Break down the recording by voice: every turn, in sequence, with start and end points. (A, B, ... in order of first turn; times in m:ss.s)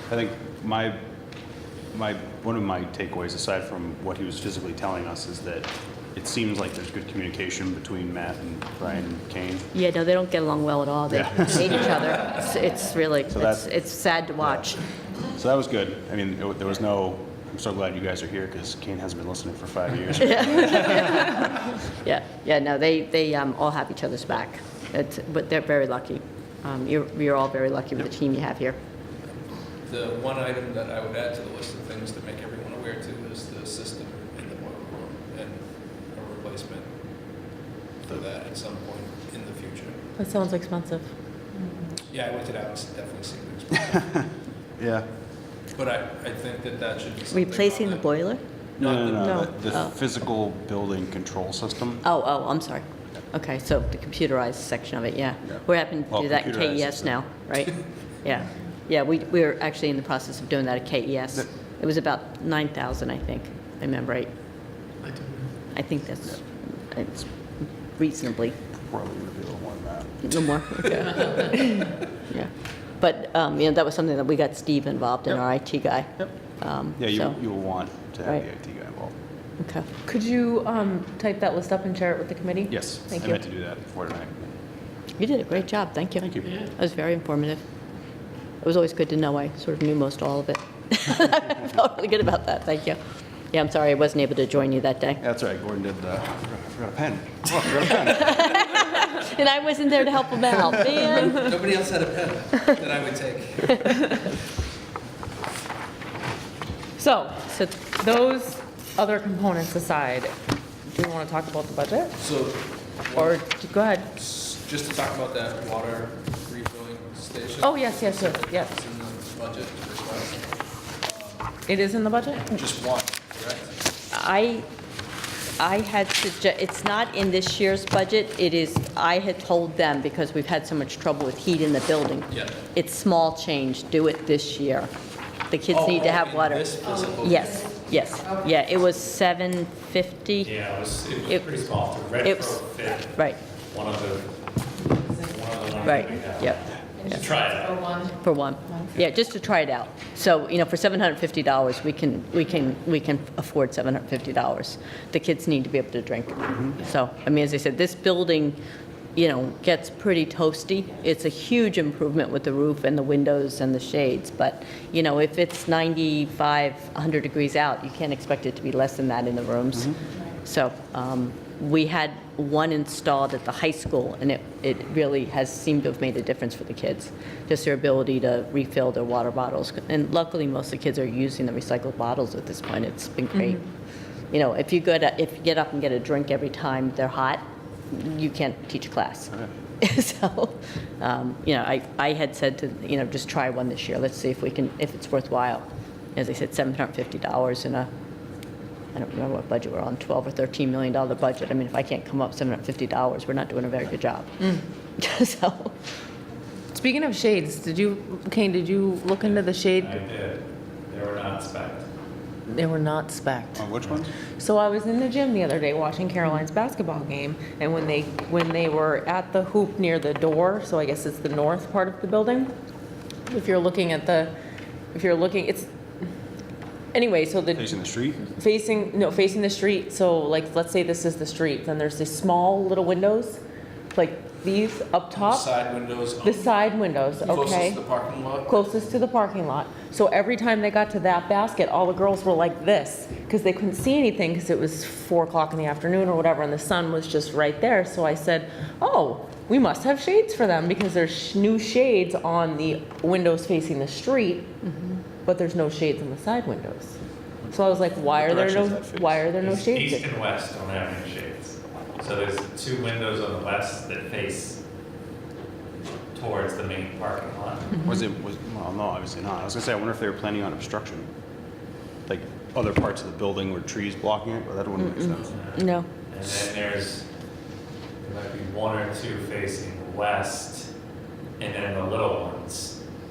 0:00.1-0:01.0 A
0:01.9-0:09.7 A
0:09.7-0:14.8 B
0:11.1-0:11.8 A
0:13.3-0:13.7 A
0:14.4-0:14.7 A
0:15.3-0:21.3 A
0:20.2-0:28.8 B
0:29.8-0:37.0 C
0:38.1-0:40.1 C
0:40.2-0:41.1 D
0:42.0-0:44.2 C
0:43.9-0:44.2 A
0:44.8-0:45.1 A
0:45.7-0:49.7 C
0:47.3-0:48.4 B
0:48.8-0:52.0 A
0:49.2-0:49.5 D
0:52.0-1:04.3 B
0:55.5-0:57.2 A
1:05.7-1:08.6 B
1:08.8-1:11.1 A
1:10.2-1:17.4 B
1:17.0-1:19.1 A
1:19.6-1:19.9 B
1:20.0-1:23.4 D
1:22.7-1:24.5 A
1:25.2-1:27.6 B
1:26.2-1:26.5 A
1:28.6-1:33.0 B
1:33.5-1:35.2 B
1:35.2-1:38.6 A
1:38.0-1:41.5 B
1:41.0-1:44.0 C
1:47.0-1:50.3 D
1:50.9-1:52.2 D
1:52.2-1:53.4 C
1:53.2-1:54.1 D
1:54.1-2:01.6 C
1:57.6-1:58.7 D
2:01.7-2:02.5 D
2:02.5-2:03.7 C
2:04.1-2:04.7 B
2:05.6-2:14.9 B
2:15.5-2:20.5 B
2:15.7-2:17.7 C
2:20.4-2:28.0 E
2:22.2-2:23.4 B
2:25.8-2:27.2 B
2:28.0-2:38.6 B
2:39.2-3:03.6 B
3:04.3-3:17.9 B
3:18.9-3:25.8 B
3:26.7-3:30.0 D
3:29.2-3:31.9 E
3:32.5-3:33.6 D
3:33.5-3:34.1 A
3:34.4-3:42.5 D
3:43.3-3:44.3 D
3:44.9-3:45.7 D
3:46.9-3:47.7 D
3:47.5-3:48.3 A
3:48.3-3:53.4 D
3:53.9-3:55.5 D
3:55.1-3:56.6 C
3:56.2-3:57.8 D
3:57.2-3:58.9 C
3:58.5-4:14.6 D
4:14.6-4:15.0 B
4:15.2-4:17.0 D
4:17.4-4:19.3 A
4:17.5-4:20.1 D
4:19.4-4:24.6 E
4:26.1-4:27.8 E
4:27.8-4:31.1 A
4:32.1-4:35.4 A
4:34.8-4:35.9 B
4:35.3-4:37.0 E
4:38.0-4:40.7 E
4:41.4-4:42.8 E